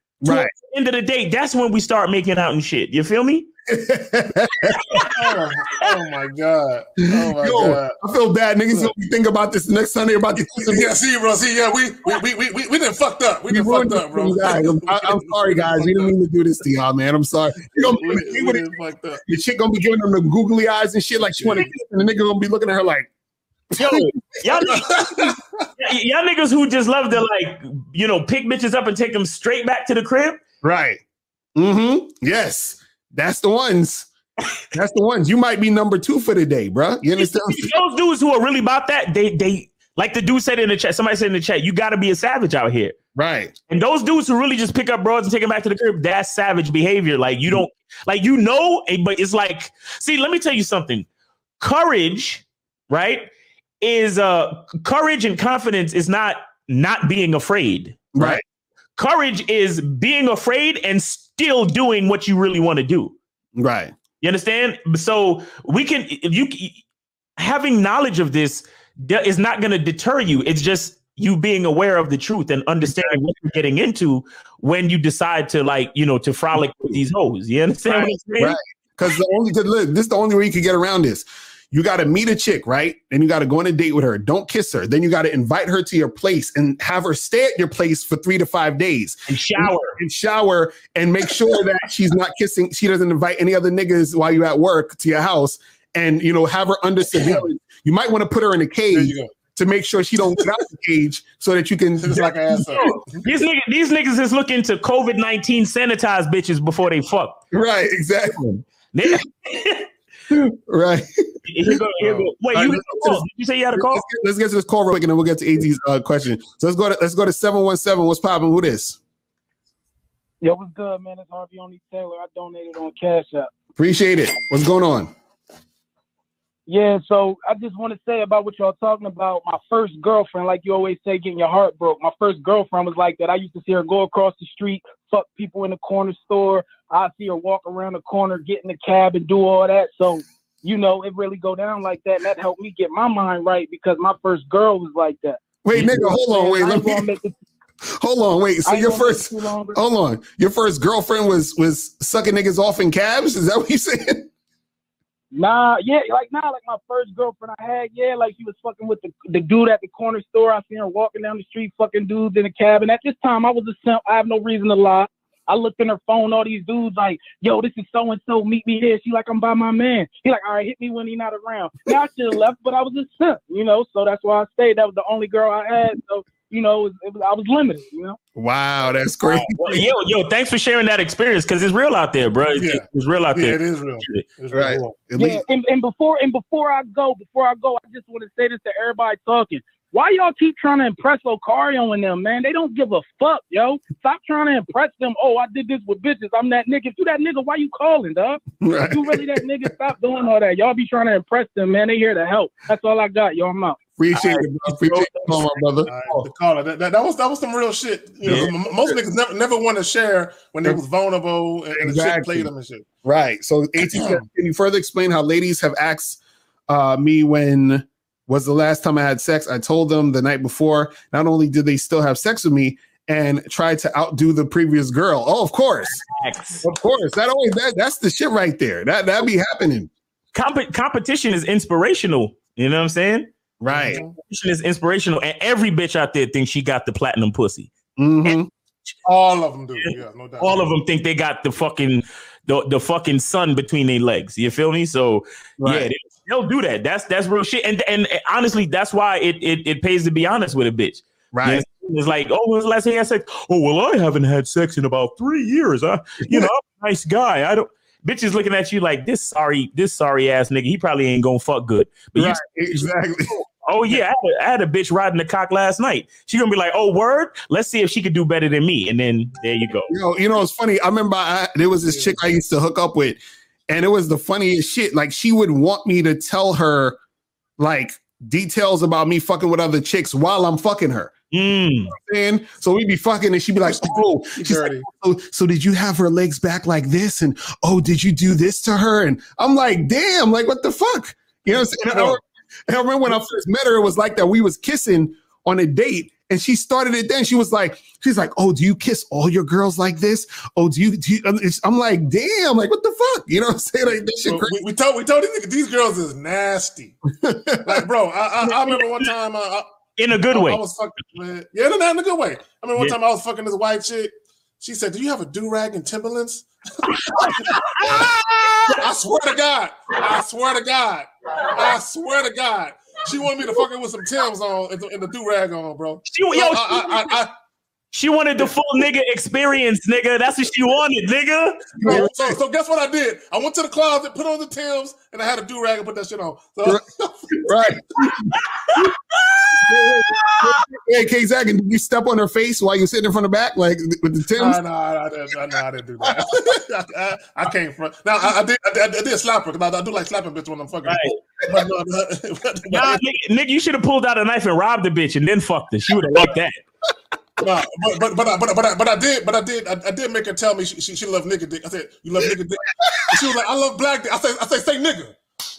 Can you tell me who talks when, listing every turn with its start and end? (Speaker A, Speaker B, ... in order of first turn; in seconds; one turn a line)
Speaker A: 0.2-0.5
Speaker B: 0.2-3.5
Speaker A: 3.7-5.1
Speaker B: 4.8-5.1
Speaker C: 5.0-8.0
Speaker A: 7.1-10.9
Speaker C: 10.7-16.1
Speaker A: 13.5-18.6
Speaker C: 17.8-19.2
Speaker A: 19.3-23.1
Speaker C: 21.3-21.7
Speaker A: 23.7-24.1
Speaker B: 23.8-30.4
Speaker C: 24.6-25.7
Speaker A: 30.6-31.0
Speaker A: 31.6-34.1
Speaker A: 34.7-37.7
Speaker B: 37.2-43.0
Speaker A: 43.1-43.5
Speaker B: 43.7-51.1
Speaker B: 51.6-53.3
Speaker B: 53.8-58.4
Speaker A: 58.1-58.4
Speaker B: 59.0-63.2
Speaker A: 63.6-64.0
Speaker B: 64.2-66.8
Speaker B: 67.4-78.6
Speaker A: 72.9-73.2
Speaker C: 77.9-78.2
Speaker A: 78.4-102.9
Speaker B: 89.3-90.0
Speaker C: 97.2-97.4
Speaker C: 98.9-99.3
Speaker C: 102.0-103.2
Speaker B: 102.8-107.4
Speaker A: 107.5-109.2
Speaker B: 108.9-109.9
Speaker A: 110.3-111.8
Speaker B: 111.5-114.0
Speaker C: 112.0-112.3
Speaker A: 112.5-119.0
Speaker D: 120.4-123.5
Speaker A: 123.8-125.1
Speaker D: 126.7-147.3
Speaker A: 145.6-147.1
Speaker A: 148.0-154.3
Speaker D: 148.7-149.8
Speaker D: 155.3-178.2
Speaker A: 178.3-179.9
Speaker B: 179.2-184.2
Speaker C: 182.6-184.9
Speaker A: 184.5-185.4
Speaker D: 185.2-203.8
Speaker A: 198.6-199.4
Speaker A: 204.0-206.3
Speaker B: 204.1-205.6
Speaker C: 205.9-212.9
Speaker B: 208.2-208.5
Speaker A: 208.3-209.0
Speaker A: 211.8-212.5
Speaker A: 213.0-226.0
Speaker C: 213.8-214.2
Speaker B: 226.0-226.6
Speaker A: 226.6-229.9
Speaker B: 230.3-233.3
Speaker A: 233.6-234.0
Speaker C: 233.7-234.1
Speaker B: 234.2-237.7
Speaker A: 238.0-238.5
Speaker B: 238.2-238.9
Speaker C: 239.1-240.7
Speaker B: 239.8-269.9
Speaker A: 245.6-245.9
Speaker A: 251.3-251.6
Speaker A: 256.2-256.5
Speaker A: 262.2-263.3
Speaker A: 269.9-277.0
Speaker C: 271.9-272.2
Speaker A: 277.6-281.1
Speaker B: 281.3-281.9
Speaker A: 281.9-304.6
Speaker C: 283.6-284.9
Speaker C: 291.9-292.2
Speaker C: 304.3-307.0
Speaker A: 307.2-307.8
Speaker C: 307.6-309.7
Speaker B: 308.7-309.1
Speaker B: 310.0-310.6
Speaker C: 310.3-318.1
Speaker B: 317.1-318.8
Speaker C: 318.7-327.3
Speaker B: 326.1-327.2
Speaker B: 327.9-331.8
Speaker A: 331.8-332.4
Speaker C: 331.8-337.2
Speaker A: 336.6-338.9
Speaker B: 339.3-340.6
Speaker A: 339.5-344.6
Speaker C: 344.4-353.0
Speaker B: 350.9-351.2
Speaker B: 352.7-356.6
Speaker C: 357.4-365.2
Speaker A: 362.8-363.1